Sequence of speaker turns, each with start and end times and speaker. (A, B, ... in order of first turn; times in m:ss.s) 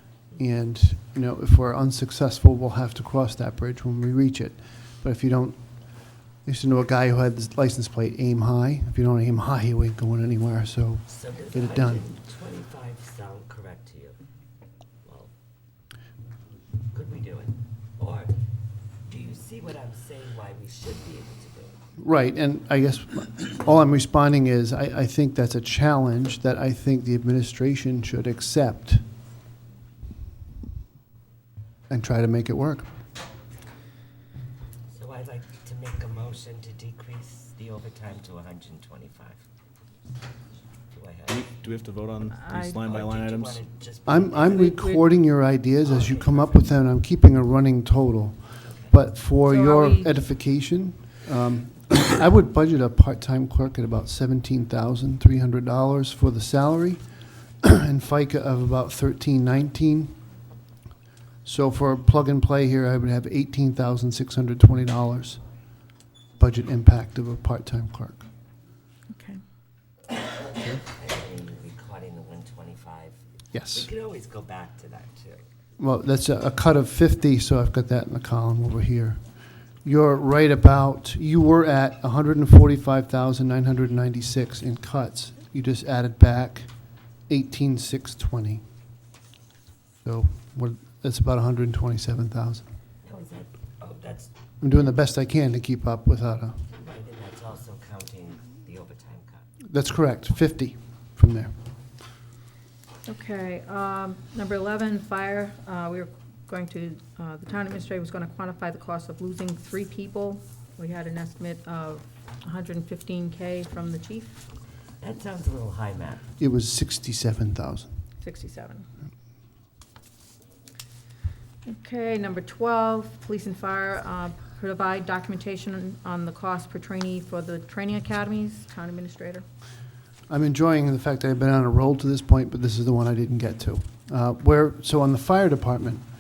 0:00.4-0:05.6 A
0:06.4-0:12.0 A
0:11.1-0:14.2 B
0:15.0-0:15.3 B
0:16.9-0:18.4 B
0:19.1-0:21.8 B
0:22.0-0:29.0 A
0:31.9-0:32.9 A
0:34.9-0:39.4 B
0:40.9-0:41.5 B
0:41.3-0:43.6 C
0:42.3-0:42.8 D
0:42.8-0:44.7 B
0:44.0-0:57.0 A
0:44.6-0:45.0 D
0:45.8-0:46.6 B
0:48.6-0:48.9 B
0:49.4-0:50.1 D
0:57.6-1:00.2 A
1:01.4-1:05.4 A
1:06.4-1:08.2 A
1:09.1-1:09.4 D
1:10.9-1:13.2 B
1:13.5-1:13.9 A
1:13.7-1:15.4 B
1:15.8-1:19.2 A
1:19.8-1:26.7 A
1:27.3-1:28.6 A
1:30.0-1:32.6 A
1:33.0-1:34.3 B
1:34.6-1:36.6 A
1:36.7-1:39.4 B
1:39.7-1:41.5 A
1:43.0-1:54.4 D
1:55.0-1:56.2 B
1:56.4-1:57.9 A
1:58.2-1:58.8 D
2:01.7-2:09.4 D
2:10.3-2:16.0 A